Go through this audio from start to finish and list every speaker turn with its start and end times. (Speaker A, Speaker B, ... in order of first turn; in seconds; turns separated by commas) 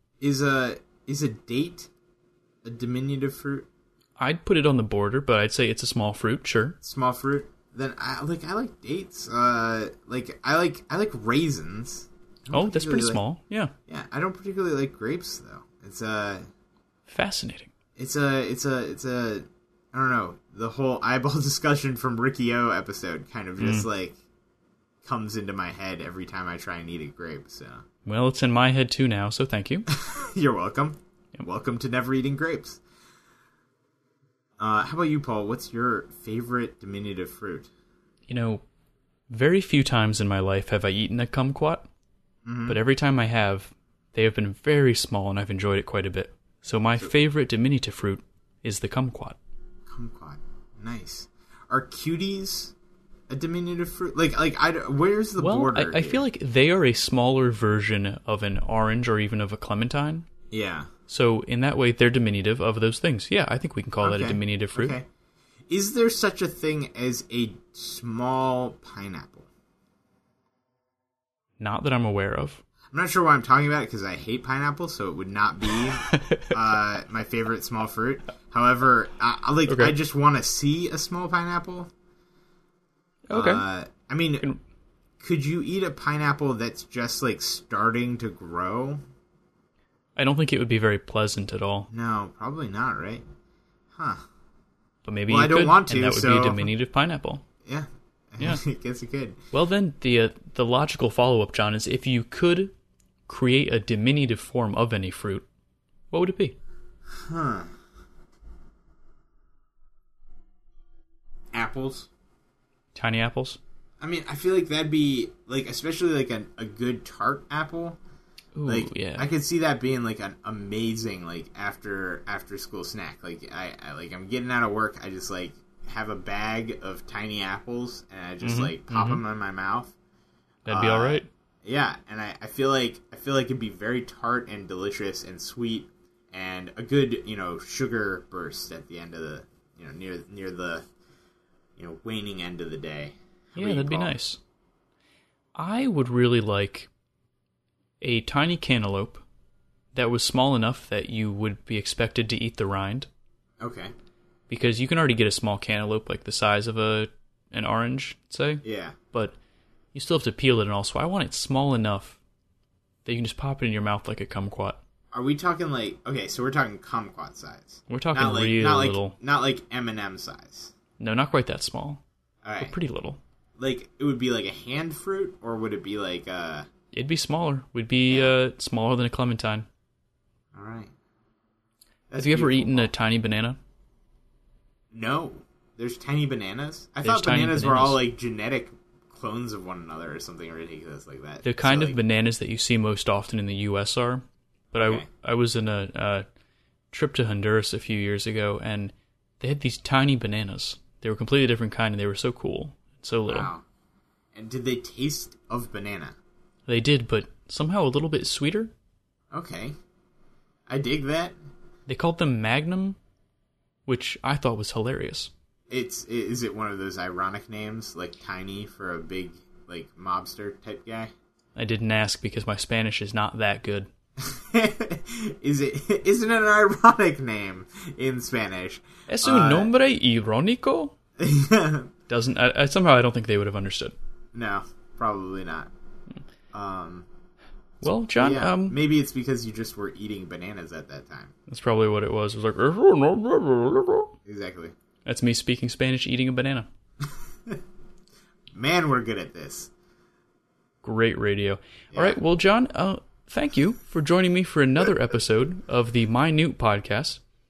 Speaker A: 0.2-1.9, Speaker A: 2.6-3.7, Speaker B: 4.2-6.8, Speaker A: 6.8-13.2, Speaker B: 12.5-13.7, Speaker A: 13.9-16.4, Speaker B: 17.1-17.7, Speaker A: 18.0-24.2, Speaker B: 23.6-23.9, Speaker A: 25.0-27.8, Speaker B: 28.1-29.9, Speaker A: 29.9-32.8, Speaker A: 34.6-37.7, Speaker B: 38.3-38.6, Speaker B: 39.3-41.9, Speaker A: 42.5-42.8, Speaker B: 42.7-49.4, Speaker A: 49.9-52.7, Speaker A: 53.3-56.2, Speaker B: 55.4-60.3, Speaker A: 60.5-60.9, Speaker B: 61.1-65.0, Speaker A: 64.0-65.1, Speaker A: 65.7-69.5, Speaker B: 71.6-72.6, Speaker A: 72.9-81.9, Speaker B: 76.1-76.6, Speaker B: 79.7-80.0, Speaker B: 83.3-83.6, Speaker A: 83.3-84.5, Speaker A: 85.2-89.0, Speaker B: 90.2-91.9, Speaker A: 91.9-93.2, Speaker A: 93.9-94.2, Speaker B: 95.1-97.4, Speaker A: 95.3-96.7, Speaker A: 97.7-99.4, Speaker B: 99.5-102.7, Speaker B: 103.3-105.5, Speaker B: 106.1-106.6, Speaker A: 107.1-107.7, Speaker A: 111.5-112.1, Speaker B: 113.0-113.6, Speaker A: 114.0-118.0, Speaker B: 118.6-119.3, Speaker A: 118.7-129.9, Speaker B: 128.4-129.2, Speaker B: 130.7-131.3, Speaker A: 130.7-140.8, Speaker A: 141.8-144.2, Speaker B: 143.6-144.4, Speaker B: 145.6-146.9, Speaker B: 148.0-149.2, Speaker B: 149.9-153.1, Speaker A: 153.6-153.9, Speaker B: 154.5-159.4, Speaker A: 158.6-159.0, Speaker B: 159.9-162.2, Speaker B: 163.1-164.8, Speaker A: 165.1-170.7, Speaker B: 167.9-169.2, Speaker B: 171.0-172.0, Speaker A: 172.4-172.8, Speaker B: 172.6-173.2, Speaker A: 173.6-176.7, Speaker B: 176.9-179.7, Speaker A: 178.1-178.3, Speaker A: 180.5-180.9, Speaker A: 182.1-182.9, Speaker B: 182.2-183.6, Speaker A: 184.9-192.0, Speaker B: 187.0-188.0, Speaker B: 191.4-196.3, Speaker A: 194.8-195.1, Speaker B: 196.9-203.5, Speaker A: 203.3-203.6, Speaker A: 204.3-206.2, Speaker B: 206.7-208.7, Speaker A: 209.3-209.8, Speaker A: 210.7-211.4, Speaker B: 211.9-213.0, Speaker B: 213.9-215.3, Speaker A: 215.7-221.1, Speaker B: 221.6-223.9, Speaker A: 224.2-229.7, Speaker B: 229.1-230.9, Speaker A: 231.2-231.9, Speaker B: 232.1-233.9, Speaker A: 234.3-235.7, Speaker A: 236.5-237.1, Speaker B: 237.8-238.8, Speaker A: 238.1-241.3, Speaker B: 241.5-244.1, Speaker A: 244.2-244.7, Speaker B: 245.1-246.7, Speaker A: 248.5-249.7, Speaker B: 250.8-257.2, Speaker A: 251.9-252.2